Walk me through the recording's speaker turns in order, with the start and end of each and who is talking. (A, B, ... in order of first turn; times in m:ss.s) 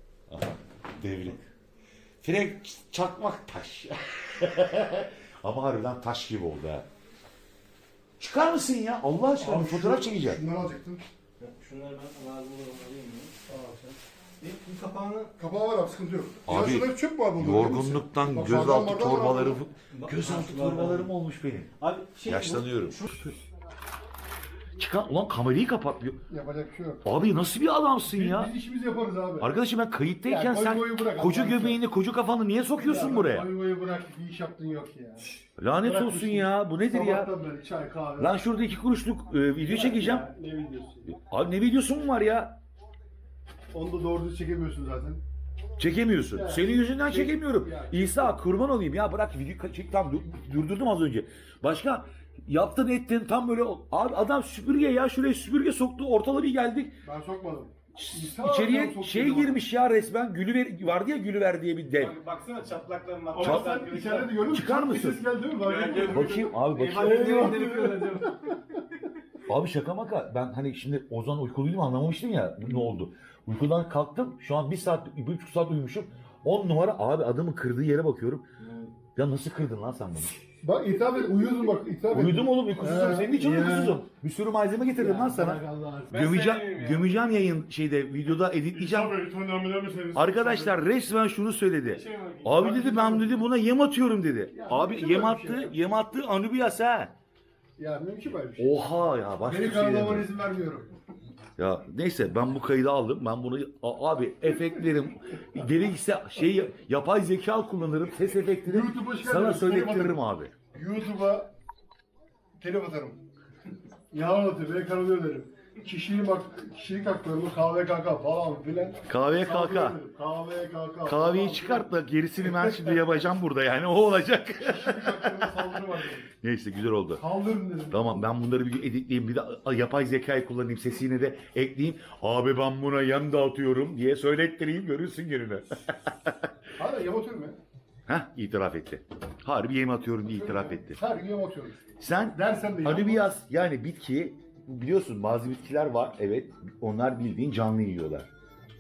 0:00.3-0:01.4 A
0:02.2-0:06.8 A
0:08.2-0:10.4 A
0:09.4-0:11.0 B
0:11.4-0:15.3 C
0:13.5-0:13.8 B
0:15.4-0:19.6 B
0:16.5-0:21.7 A
0:19.9-0:21.1 C
0:21.8-0:23.3 C
0:22.2-0:23.0 A
0:24.8-0:26.2 A
0:26.3-0:27.1 B
0:27.0-0:28.5 A
0:28.1-0:29.5 B
0:29.4-0:33.5 A
0:30.2-0:31.8 B
0:32.8-0:38.4 B
0:35.6-0:37.3 A
0:38.2-0:40.3 A
0:39.6-0:41.1 B
0:41.1-0:42.6 A
0:43.7-0:45.2 B
0:45.8-0:57.0 A
0:46.3-0:48.4 B
0:57.0-0:59.6 B
0:57.9-1:02.1 A
1:02.0-1:04.4 C
1:03.3-1:08.3 B
1:03.4-1:03.7 A
1:04.4-1:05.2 A
1:05.5-1:08.8 C
1:06.1-1:07.5 A
1:09.5-1:18.4 A
1:18.6-1:18.9 C
1:19.2-1:20.4 A
1:20.6-1:24.0 B
1:22.1-1:29.2 A
1:25.0-1:26.1 B
1:25.4-1:27.1 C
1:28.7-1:30.8 B
1:30.1-1:37.1 A
1:31.8-1:32.6 C
1:32.5-1:33.4 B
1:34.5-1:35.7 B
1:37.8-1:38.8 B
1:38.6-1:40.3 A
1:39.5-1:40.9 B
1:41.6-1:50.5 A
1:48.6-1:50.2 B
1:50.7-1:51.5 B
1:52.6-1:53.2 B
1:54.1-2:01.9 B
1:59.1-2:00.0 A
2:01.0-2:05.7 A
2:02.4-2:02.9 B
2:04.6-2:06.3 B
2:06.4-2:07.2 A
2:07.2-2:08.3 B
2:07.9-2:16.3 A
2:16.8-2:17.6 B
2:18.1-2:21.0 A
2:20.3-2:23.3 B
2:22.0-2:28.3 A